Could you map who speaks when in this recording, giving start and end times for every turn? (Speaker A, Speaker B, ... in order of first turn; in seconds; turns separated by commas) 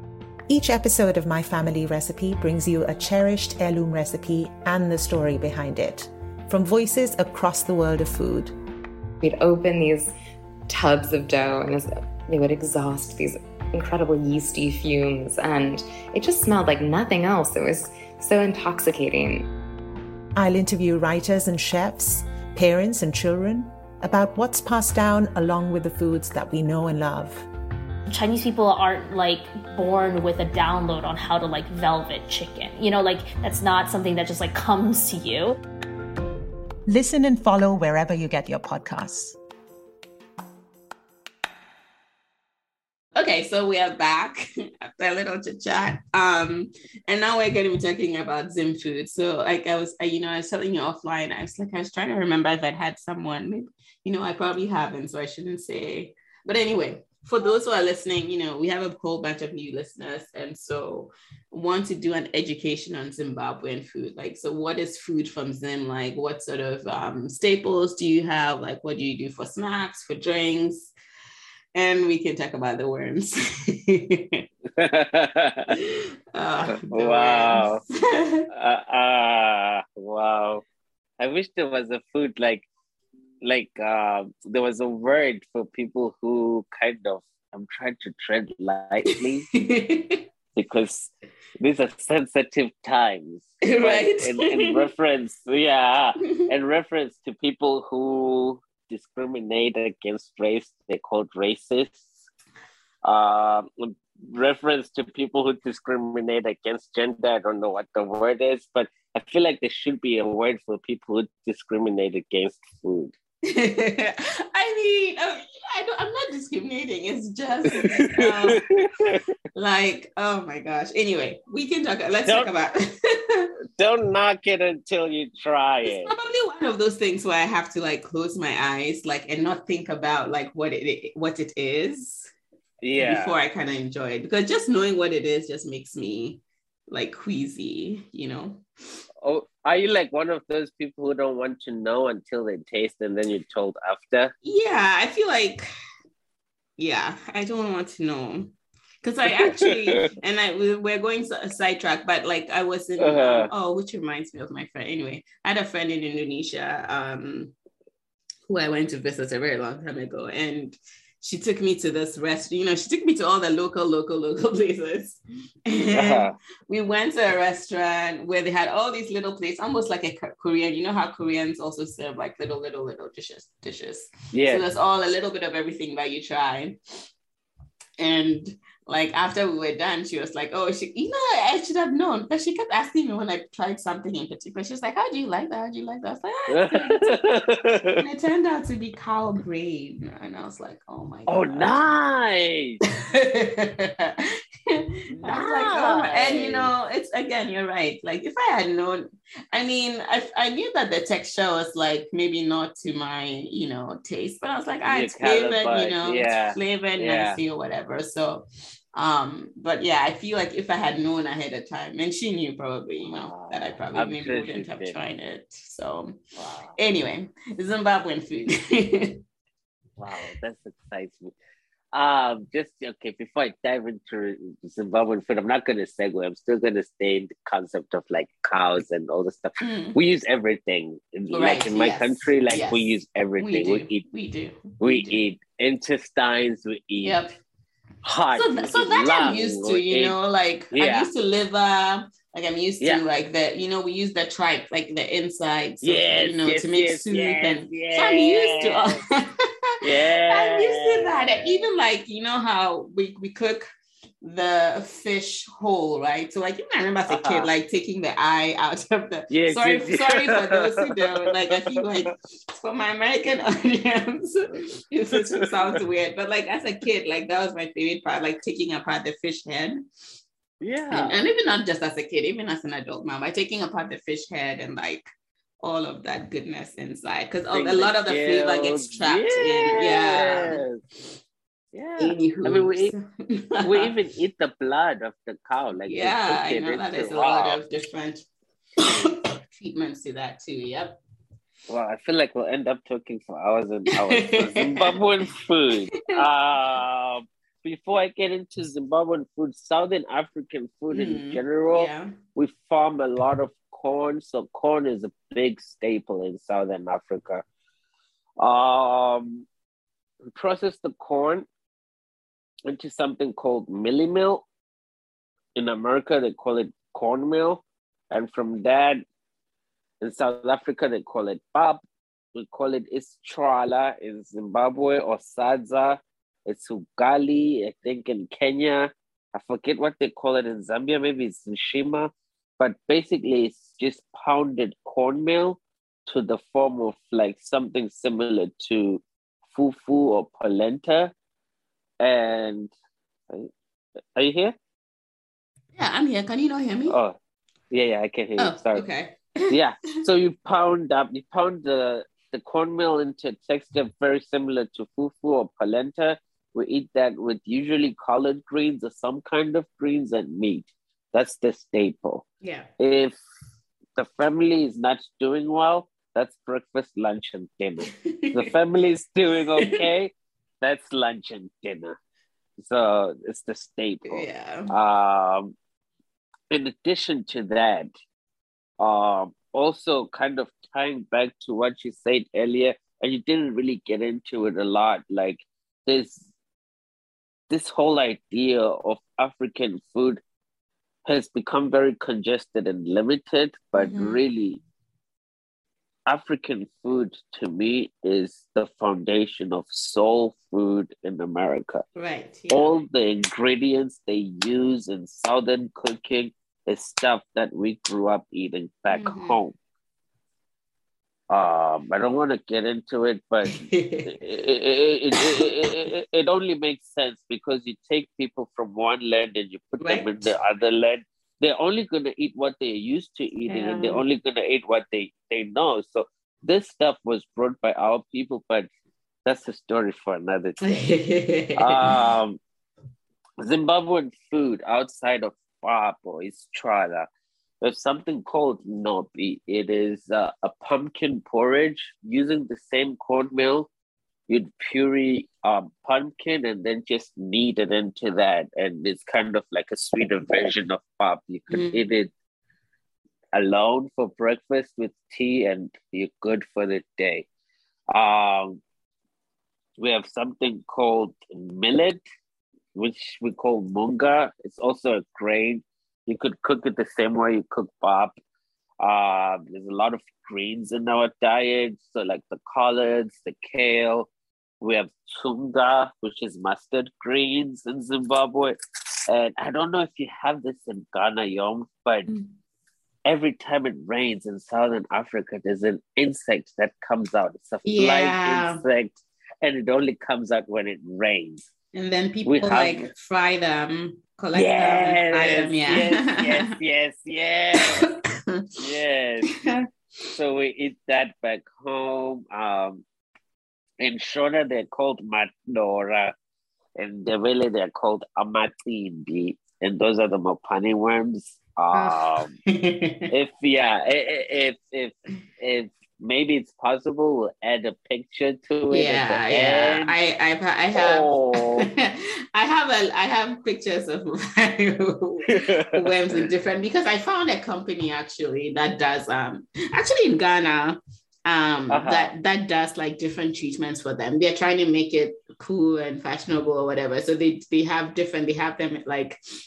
Speaker A: 0.5-8.5, Speaker B: 9.2-10.1, Speaker B: 10.7-19.5, Speaker A: 20.3-27.4, Speaker C: 28.1-35.6, Speaker A: 36.9-39.4, Speaker D: 43.1-70.9, Speaker D: 71.7-74.4, Speaker E: 74.8-75.7, Speaker D: 75.7-78.5, Speaker E: 76.7-77.8, Speaker E: 78.5-80.6, Speaker E: 81.2-82.7, Speaker E: 83.4-89.5, Speaker D: 89.1-90.2, Speaker E: 90.5-102.3, Speaker D: 93.6-94.9, Speaker E: 103.0-113.1, Speaker D: 113.5-118.6, Speaker E: 117.7-119.2, Speaker D: 119.5-123.5, Speaker E: 123.8-126.1, Speaker D: 125.8-132.3, Speaker E: 132.8-133.3, Speaker D: 133.0-138.6, Speaker E: 139.2-144.3, Speaker D: 144.4-145.7, Speaker D: 146.8-157.5, Speaker E: 149.3-150.1, Speaker E: 153.0-153.5, Speaker D: 158.5-176.8, Speaker E: 165.9-166.3, Speaker E: 174.3-174.6, Speaker D: 178.0-187.2, Speaker E: 186.5-188.0, Speaker D: 188.0-191.8, Speaker E: 191.3-192.8, Speaker D: 193.0-216.2, Speaker E: 195.1-196.7, Speaker E: 204.8-207.4, Speaker E: 213.0-215.0, Speaker E: 216.4-216.8, Speaker D: 216.8-219.2, Speaker E: 220.0-221.3, Speaker E: 221.9-234.0, Speaker D: 229.6-230.0, Speaker D: 231.3-235.2, Speaker E: 234.8-237.2, Speaker D: 237.0-237.4, Speaker E: 238.0-240.2, Speaker D: 238.3-249.8, Speaker E: 240.7-241.1, Speaker E: 245.8-249.0, Speaker E: 249.8-251.7, Speaker D: 250.3-253.7, Speaker D: 254.2-269.8, Speaker E: 257.1-257.5, Speaker E: 259.3-262.1, Speaker E: 265.1-265.8, Speaker E: 270.6-271.2, Speaker D: 270.9-275.1, Speaker D: 275.6-280.6, Speaker E: 277.5-280.8, Speaker E: 281.7-282.9, Speaker D: 282.0-283.9, Speaker E: 283.6-287.6, Speaker D: 285.9-288.2, Speaker D: 288.8-291.0, Speaker E: 291.7-307.4, Speaker D: 293.9-295.0, Speaker D: 300.9-302.1, Speaker E: 308.4-309.4, Speaker E: 310.2-311.5, Speaker E: 312.6-314.4, Speaker E: 315.6-319.0, Speaker E: 320.0-321.8, Speaker E: 322.3-341.1, Speaker E: 342.0-342.7, Speaker E: 344.1-344.6, Speaker D: 345.7-347.0, Speaker E: 346.9-347.1, Speaker E: 347.7-348.8, Speaker D: 348.4-349.5, Speaker E: 349.5-362.2, Speaker D: 362.4-362.7, Speaker E: 362.8-363.2, Speaker E: 363.9-372.0, Speaker D: 368.0-368.5, Speaker D: 369.6-369.8, Speaker E: 372.6-375.5, Speaker D: 374.1-374.7, Speaker E: 376.5-377.9, Speaker E: 378.8-386.3, Speaker E: 387.5-390.2, Speaker E: 391.0-394.6, Speaker D: 393.8-394.2, Speaker E: 396.1-401.8, Speaker D: 401.9-402.8, Speaker E: 402.5-409.6, Speaker D: 408.9-409.4, Speaker E: 411.3-428.7, Speaker D: 413.4-414.1, Speaker D: 415.1-415.6, Speaker D: 419.8-420.3, Speaker D: 423.5-424.0, Speaker E: 429.2-430.8, Speaker D: 430.6-431.9, Speaker E: 431.6-432.4, Speaker E: 433.4-437.1, Speaker E: 437.6-443.7, Speaker E: 444.3-452.1, Speaker D: 451.5-451.9, Speaker E: 453.3-457.3, Speaker E: 457.9-458.6, Speaker E: 459.8-462.0, Speaker E: 462.7-468.2, Speaker E: 468.8-474.1, Speaker E: 474.6-482.1, Speaker E: 483.0-491.4, Speaker D: 487.6-488.6, Speaker D: 491.7-496.6, Speaker E: 492.2-492.9, Speaker E: 494.3-497.9, Speaker D: 497.5-498.5, Speaker E: 498.6-499.4, Speaker D: 499.3-499.7, Speaker E: 500.1-502.8, Speaker E: 503.8-506.1, Speaker E: 506.8-512.3, Speaker D: 511.7-513.1, Speaker E: 513.1-519.9, Speaker D: 518.7-539.2, Speaker E: 520.7-521.7, Speaker E: 525.3-526.2, Speaker E: 531.7-532.1